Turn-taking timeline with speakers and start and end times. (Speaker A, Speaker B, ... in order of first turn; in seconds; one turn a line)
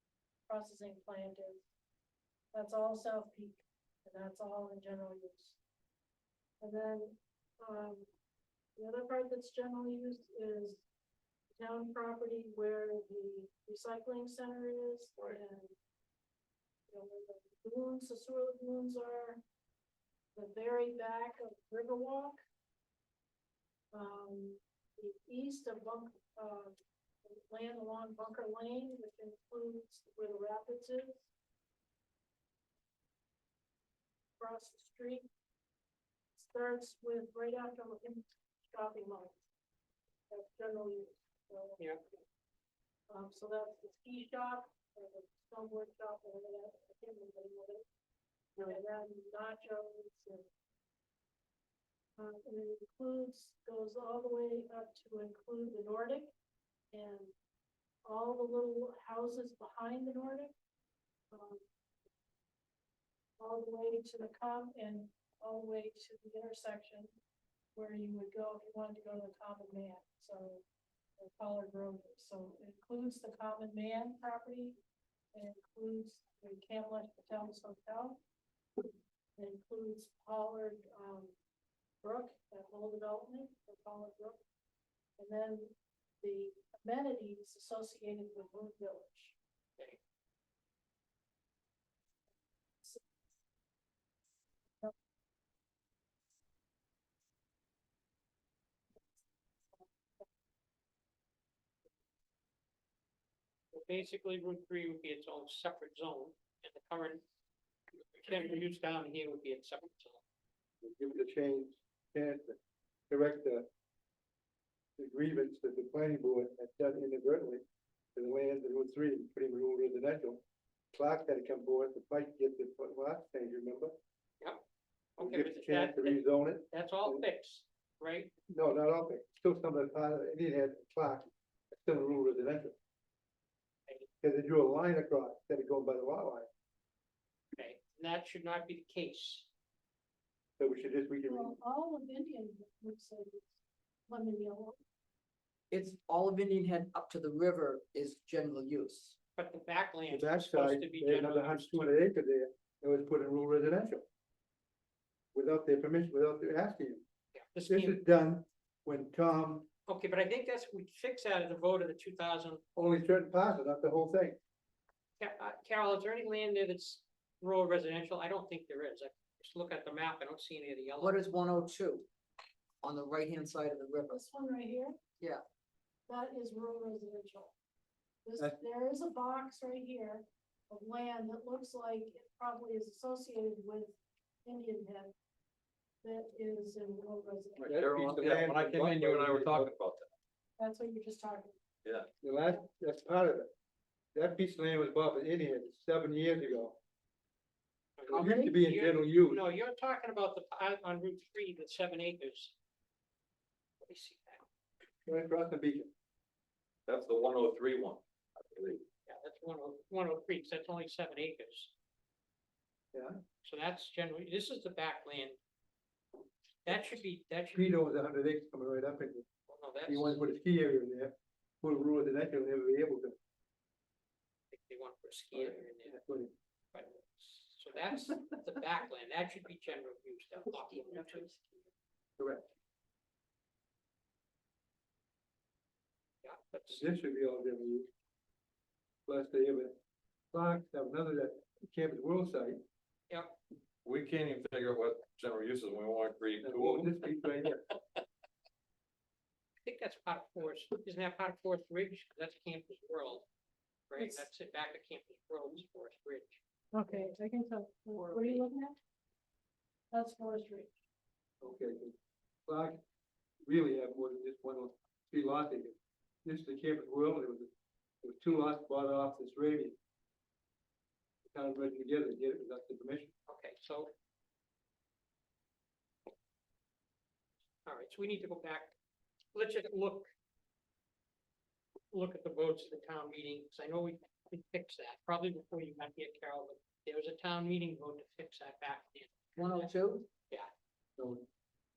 Speaker A: 0.5-1.6
Speaker A: 2.5-5.6
Speaker A: 6.6-8.1
Speaker A: 8.8-10.8
Speaker A: 11.6-15.7
Speaker A: 16.9-19.4
Speaker A: 20.3-22.4
Speaker A: 23.9-31.2
Speaker A: 34.4-35.3
Speaker A: 36.4-39.4
Speaker A: 40.3-41.8
Speaker A: 43.1-47.8
Speaker A: 48.6-50.5
Speaker A: 52.2-56.3
Speaker A: 56.9-57.3
Speaker A: 58.0-60.5
Speaker A: 61.3-61.6
Speaker A: 63.4-67.1
Speaker A: 67.7-70.6
Speaker A: 71.2-74.8
Speaker A: 75.3-78.2
Speaker A: 79.3-81.3
Speaker A: 82.0-84.4
Speaker A: 85.2-89.3
Speaker B: 103.7-107.2
Speaker B: 108.1-110.2
Speaker C: 110.8-112.5
Speaker C: 113.1-113.7
Speaker C: 115.0-117.6
Speaker C: 118.1-120.4
Speaker C: 120.9-123.9
Speaker C: 125.2-127.2
Speaker B: 125.2-128.3
Speaker C: 128.5-132.7
Speaker C: 134.2-136.5
Speaker B: 137.6-139.5
Speaker C: 140.6-141.5
Speaker A: 141.2-143.5
Speaker A: 144.1-144.8
Speaker D: 145.7-149.2
Speaker B: 149.4-152.0
Speaker C: 150.1-154.0
Speaker C: 155.3-157.0
Speaker B: 157.3-158.0
Speaker C: 157.7-159.7
Speaker B: 159.8-162.6
Speaker C: 162.8-164.4
Speaker B: 165.2-171.2
Speaker D: 171.0-172.1
Speaker D: 172.8-174.2
Speaker A: 174.1-174.9
Speaker A: 176.1-177.5
Speaker A: 178.2-185.1
Speaker A: 186.0-187.9
Speaker E: 187.6-190.1
Speaker C: 187.7-189.7
Speaker A: 190.6-191.6
Speaker C: 192.2-193.5
Speaker C: 194.1-196.8
Speaker B: 198.0-202.5
Speaker C: 198.1-199.4
Speaker B: 203.8-204.4
Speaker C: 205.1-205.9
Speaker E: 206.9-208.8
Speaker B: 209.1-211.7
Speaker C: 212.9-213.2
Speaker B: 213.4-215.4
Speaker B: 216.7-217.7
Speaker C: 217.5-219.2
Speaker B: 219.5-220.2
Speaker C: 219.8-223.1
Speaker B: 224.5-226.0
Speaker C: 225.3-226.3
Speaker B: 226.7-231.4
Speaker C: 232.2-232.5
Speaker B: 236.2-236.8
Speaker C: 236.7-237.9
Speaker C: 239.1-239.7
Speaker C: 240.3-242.6
Speaker B: 243.1-243.3
Speaker E: 243.8-247.0
Speaker C: 246.4-247.6
Speaker B: 249.7-253.2
Speaker B: 253.9-256.4
Speaker A: 254.0-254.3
Speaker A: 256.7-258.8
Speaker B: 258.0-258.4
Speaker A: 259.9-260.7
Speaker C: 261.4-261.9
Speaker C: 262.5-262.8
Speaker C: 263.4-267.5
Speaker C: 268.0-269.8
Speaker C: 271.3-273.1
Speaker B: 273.3-273.9
Speaker B: 277.6-278.7
Speaker B: 279.3-280.1
Speaker B: 281.9-289.7
Speaker D: 289.4-290.1
Speaker C: 291.0-291.2